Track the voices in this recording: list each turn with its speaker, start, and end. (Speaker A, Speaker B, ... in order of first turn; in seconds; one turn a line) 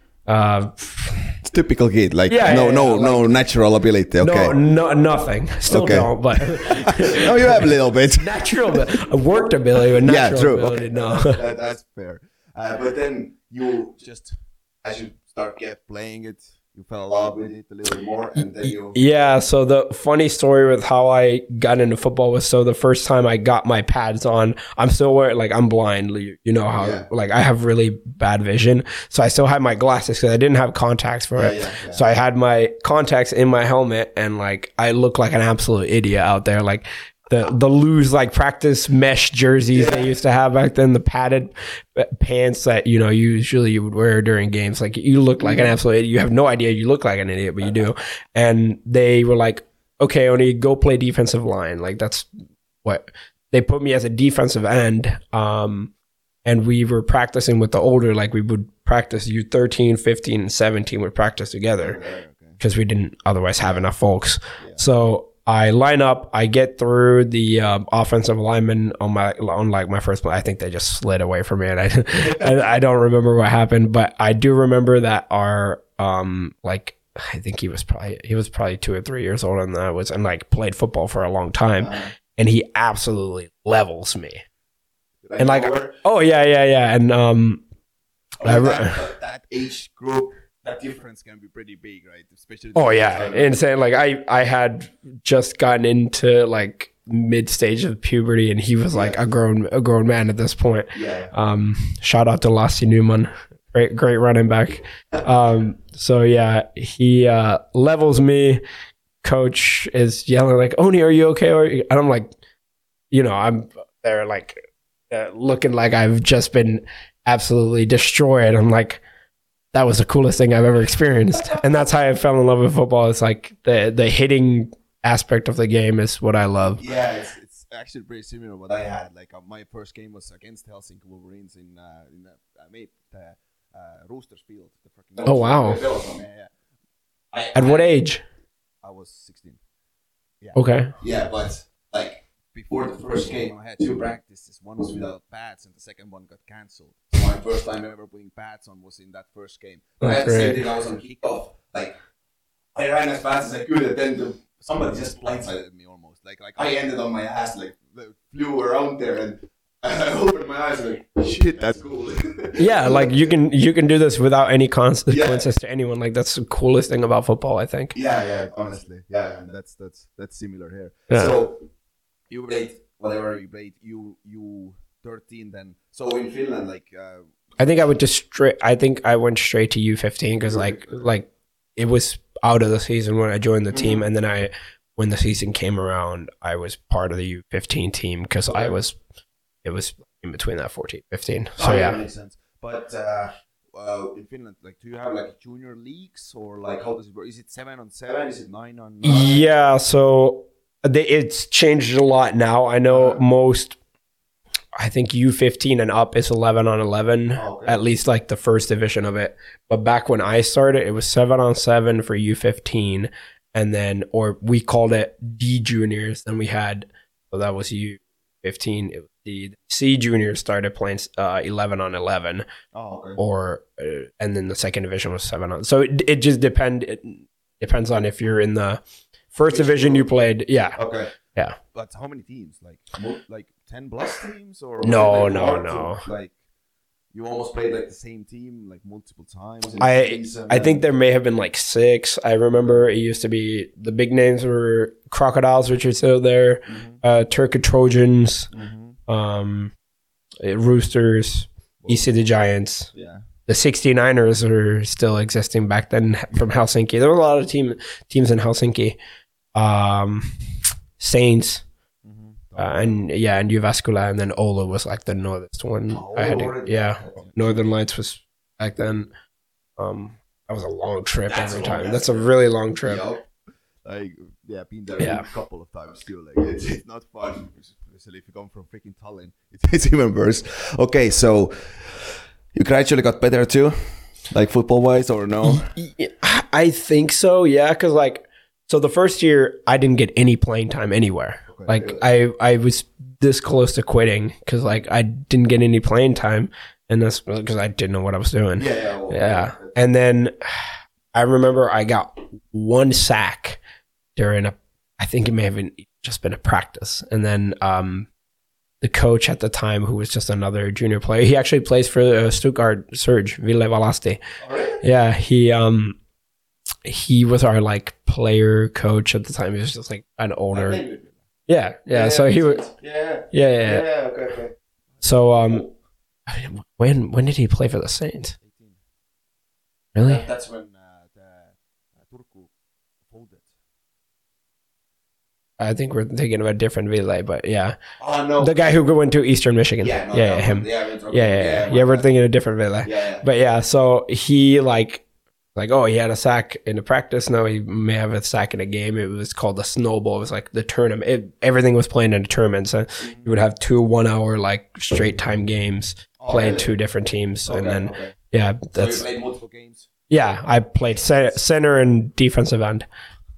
Speaker A: 0.3-1.2
Speaker B: 1.4-4.5
Speaker A: 2.3-3.3
Speaker A: 4.2-11.4
Speaker B: 5.7-8.8
Speaker B: 10.0-19.0
Speaker A: 18.4-52.3
Speaker B: 26.8-27.1
Speaker B: 31.4-32.0
Speaker B: 39.7-40.1
Speaker B: 45.4-45.7
Speaker A: 52.8-55.9
Speaker A: 56.5-62.0
Speaker B: 61.8-62.6
Speaker A: 62.6-84.4
Speaker B: 81.8-82.0
Speaker B: 85.2-86.0
Speaker A: 85.4-87.6
Speaker B: 88.4-93.5
Speaker A: 88.4-89.1
Speaker A: 92.8-108.6
Speaker B: 98.9-99.2
Speaker B: 101.0-101.3
Speaker A: 109.2-112.3
Speaker A: 113.1-119.0
Speaker A: 119.7-126.8
Speaker B: 126.8-136.5
Speaker A: 135.2-135.8
Speaker B: 137.3-137.9
Speaker A: 137.5-138.2
Speaker B: 138.8-139.6
Speaker B: 140.4-151.9
Speaker A: 140.6-140.9
Speaker A: 150.0-150.6
Speaker B: 152.8-163.2
Speaker A: 162.6-168.0
Speaker B: 165.1-165.5
Speaker B: 167.9-171.6
Speaker A: 171.1-171.4
Speaker B: 172.3-177.3
Speaker A: 177.6-189.0
Speaker B: 180.5-181.0
Speaker B: 183.7-184.0
Speaker B: 188.5-188.8
Speaker A: 189.6-192.0
Speaker B: 191.6-199.5
Speaker A: 199.0-203.8
Speaker B: 202.9-203.2
Speaker A: 204.8-222.4
Speaker B: 207.3-207.8
Speaker B: 222.7-223.2
Speaker A: 223.2-230.8
Speaker B: 229.5-230.1
Speaker B: 230.8-231.1
Speaker B: 231.7-236.4
Speaker A: 234.8-236.0
Speaker B: 237.1-240.8
Speaker A: 239.8-248.5
Speaker B: 246.7-247.0
Speaker B: 248.5-249.0
Speaker A: 249.1-249.7
Speaker A: 250.4-252.9
Speaker B: 252.9-253.2
Speaker A: 253.5-259.0
Speaker A: 259.6-260.3
Speaker A: 261.0-261.6
Speaker B: 262.0-263.0
Speaker A: 262.6-269.1
Speaker B: 265.9-267.7
Speaker A: 269.8-273.1
Speaker B: 271.3-272.3
Speaker B: 272.8-273.3
Speaker B: 273.8-283.7
Speaker A: 275.0-275.3
Speaker B: 284.3-285.7
Speaker A: 285.4-303.6
Speaker B: 291.5-292.0
Speaker B: 298.6-299.8
Speaker A: 304.2-308.1
Speaker A: 308.8-314.2
Speaker B: 314.4-314.8
Speaker A: 314.8-316.0
Speaker A: 316.9-320.8
Speaker B: 320.5-321.2
Speaker A: 321.5-322.7
Speaker B: 321.9-325.7
Speaker A: 323.3-323.9
Speaker A: 325.0-325.7
Speaker A: 326.3-328.4
Speaker B: 328.4-328.8
Speaker A: 329.9-330.2
Speaker B: 330.1-332.5
Speaker B: 333.0-333.5
Speaker A: 335.6-337.8
Speaker B: 338.0-338.6
Speaker A: 338.4-345.0
Speaker B: 339.8-342.1
Speaker B: 342.8-343.2
Speaker A: 345.6-359.1
Speaker B: 353.0-353.3
Speaker B: 356.2-356.7
Speaker B: 357.5-358.1
Speaker B: 358.8-359.9
Speaker A: 360.1-362.9